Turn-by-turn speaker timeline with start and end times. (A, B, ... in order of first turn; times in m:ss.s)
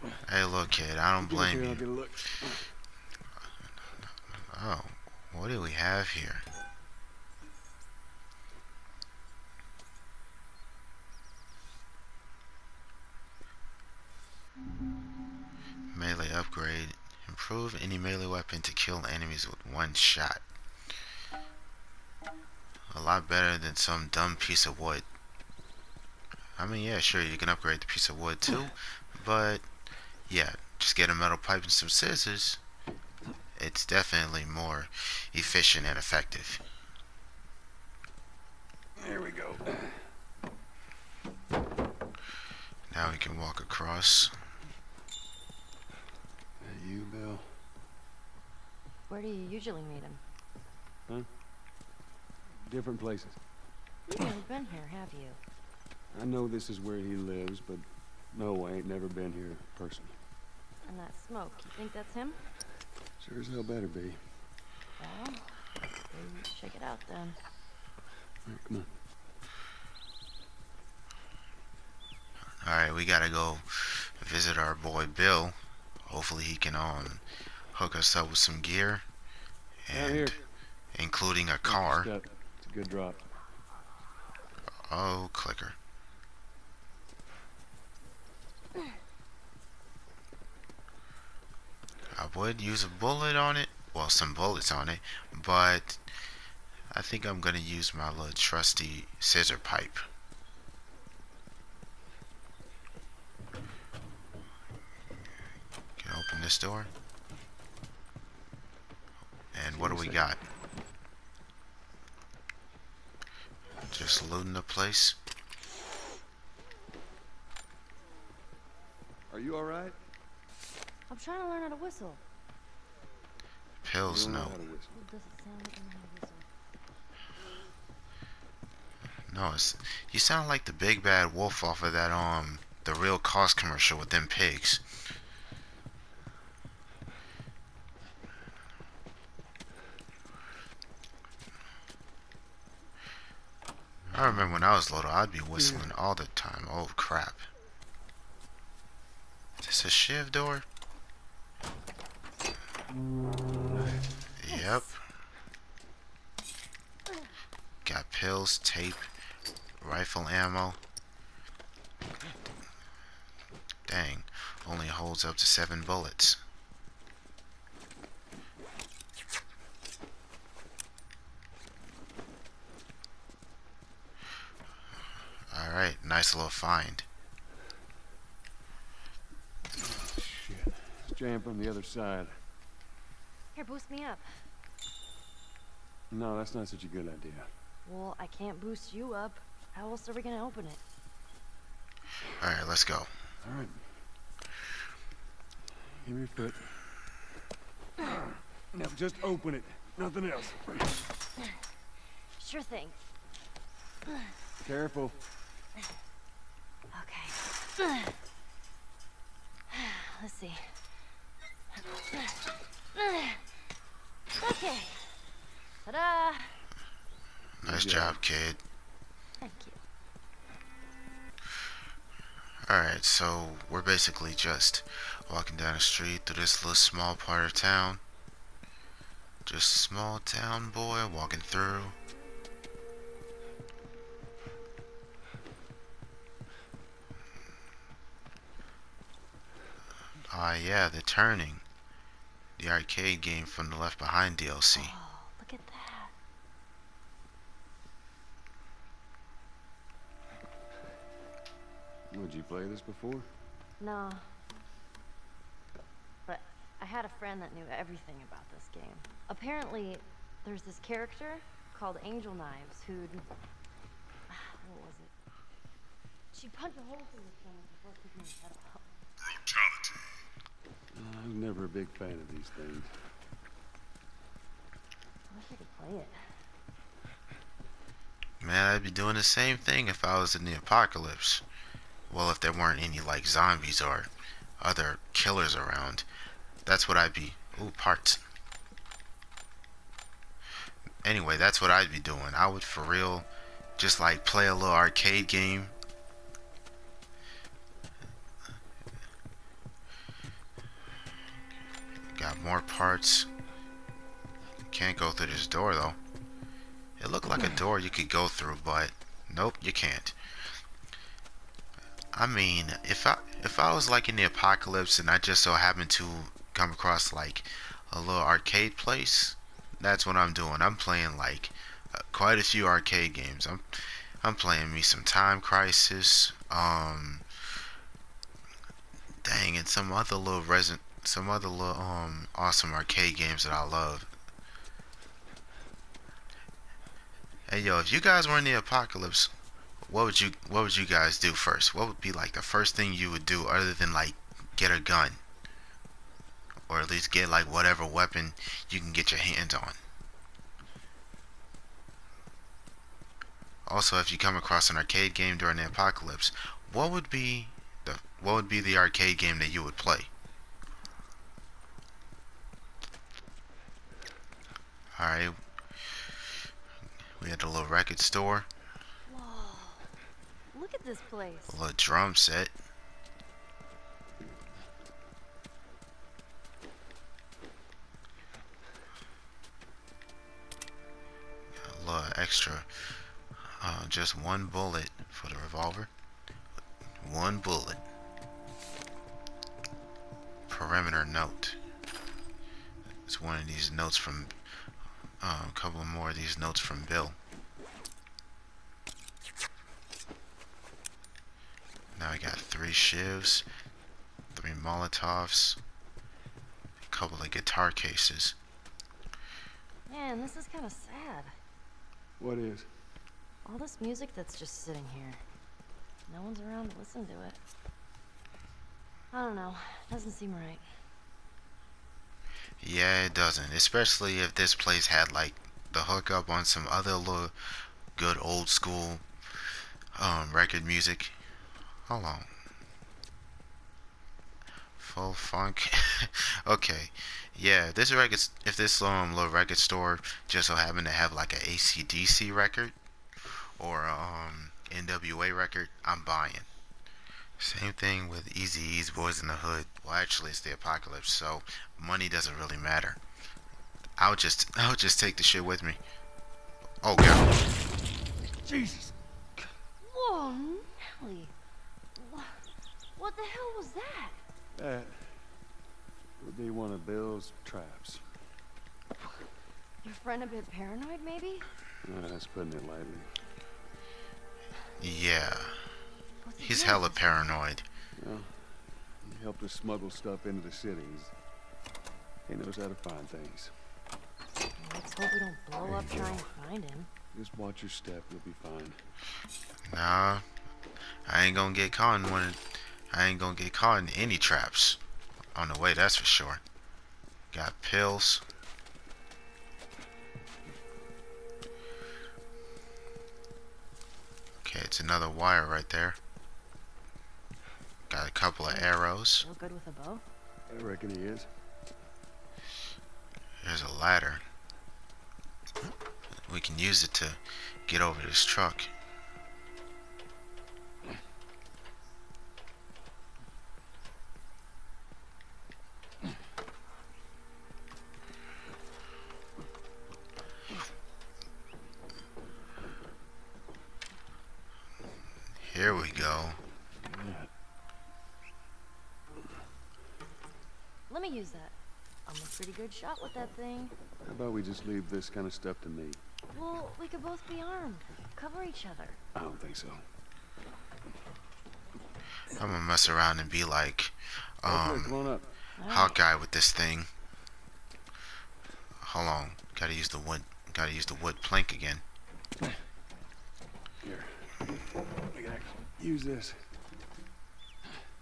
0:00.3-0:01.8 A
0:01.2-0:02.7 B
0:04.5-0:06.4 A
0:15.9-0:20.4 A
0:22.9-0:25.0 A
0:26.6-0:29.7 A
0:30.3-0:32.6 A
0:33.6-0:36.6 A
0:39.0-0:40.1 B
0:42.9-0:44.3 A
0:46.6-0:47.5 B
0:49.1-0:50.2 C
0:52.6-0:53.4 B
0:54.1-0:55.4 C
0:56.1-1:00.2 B
1:00.8-1:02.4 C
1:03.2-1:04.2 B
1:05.0-1:07.4 C
1:08.5-1:08.9 B
1:12.6-1:17.2 A
1:17.7-1:19.0 A
1:19.9-1:20.4 A
1:19.9-1:20.4 B
1:21.0-1:22.1 A
1:21.6-1:23.2 B
1:24.8-1:25.8 A
1:32.2-1:36.0 A
1:36.9-1:40.0 A
1:46.0-1:46.9 A
1:49.5-1:50.4 A
1:49.7-1:50.3 B
1:53.9-1:55.2 A
1:59.3-2:00.0 B
2:01.1-2:02.2 C
2:03.8-2:04.6 A
2:04.0-2:05.0 B
2:04.9-2:06.5 C
2:09.3-2:14.8 A
2:24.1-2:27.4 A
2:29.6-2:30.6 A
2:34.4-2:35.0 A
2:34.5-2:34.9 C
2:37.8-2:39.1 A
2:39.8-2:40.8 A
2:43.9-2:46.4 A
2:55.5-2:57.0 A
2:59.7-3:02.4 B
3:03.6-3:04.3 C
3:06.1-3:07.5 B
3:07.9-3:10.8 C
3:12.4-3:13.1 A
3:13.4-3:13.8 B
3:15.8-3:16.9 B
3:18.7-3:21.0 B
3:22.4-3:23.0 C
3:24.1-3:24.3 C
3:24.6-3:25.2 B
3:26.9-3:28.2 C
3:29.7-3:30.8 C
3:31.7-3:33.5 C
3:34.3-3:35.2 C
3:35.8-3:36.6 C
3:37.6-3:38.2 B
3:37.6-3:38.6 A
3:39.4-3:39.8 C
3:42.7-3:48.0 A
3:49.5-3:52.0 A
4:00.3-4:01.6 A
4:02.6-4:04.9 A
4:04.7-4:06.1 C
4:12.1-4:13.3 B
4:13.8-4:14.3 C
4:16.3-4:23.3 C
4:24.3-4:25.1 C
4:26.3-4:28.9 C
4:30.9-4:32.9 B
4:35.3-4:36.4 C
4:38.4-4:41.4 A
4:42.1-4:44.1 A
4:44.6-4:46.1 A
4:46.7-4:48.2 A
4:51.0-4:53.3 A
4:53.8-4:55.8 A
5:02.1-5:03.3 A
5:04.7-5:06.0 A
5:07.0-5:10.2 A
5:12.1-5:23.6 A
5:24.2-5:27.2 A
5:29.2-5:34.1 A
5:37.5-5:39.3 A
5:39.9-5:45.2 A
5:46.7-5:49.8 A
5:53.7-6:00.1 A
6:05.0-6:05.4 A
6:07.2-6:08.5 A
6:09.1-6:09.9 C
6:10.5-6:11.6 C
6:11.5-6:12.5 A
6:21.6-6:22.7 A
6:23.6-6:25.9 A
6:27.0-6:27.8 A
6:30.5-6:31.6 A
6:33.1-6:34.3 A
6:35.2-6:37.2 A
6:42.0-6:43.4 A
6:44.3-6:45.6 A
6:46.9-6:48.4 A
6:49.9-6:51.4 C
6:52.2-6:52.7 B
6:53.4-6:55.2 C
6:56.1-6:57.4 C
6:59.1-7:00.7 C
7:02.6-7:07.4 A
7:08.0-7:09.0 A
7:10.0-7:11.2 A
7:11.9-7:12.3 A
7:14.8-7:22.7 A
7:23.6-7:26.5 A
7:27.4-7:33.0 A
7:34.0-7:35.8 A
7:36.8-7:37.4 A
7:38.4-7:38.9 B
7:39.8-7:41.3 C
7:42.0-7:42.4 C
7:43.0-7:44.2 C
7:44.6-7:45.3 B
7:46.2-7:48.1 B
7:49.8-7:51.5 C
7:51.8-7:53.1 B
7:54.8-7:55.6 A
7:56.2-7:57.0 C
7:56.4-7:57.6 A
7:58.0-8:01.1 B
8:02.3-8:03.5 B
8:04.6-8:06.9 C
8:05.6-8:06.3 B
8:07.1-8:08.8 B
8:09.7-8:10.2 A
8:11.1-8:14.8 A
8:15.4-8:16.4 A
8:17.3-8:18.2 A
8:24.4-8:26.0 A
8:27.9-8:29.3 A
8:28.5-8:30.0 C
8:30.5-8:31.3 B
8:33.4-8:34.2 A
8:36.3-8:38.7 A
8:55.4-8:56.4 A
8:56.8-8:57.3 B
9:00.9-9:01.5 C
9:02.1-9:03.8 C
9:04.0-9:06.0 B
9:06.3-9:09.0 C
9:09.2-9:09.8 B
9:12.4-9:14.9 A
9:14.4-9:15.3 B
9:15.6-9:16.0 C
9:15.6-9:16.9 A
9:18.8-9:21.8 A
9:23.8-9:26.5 B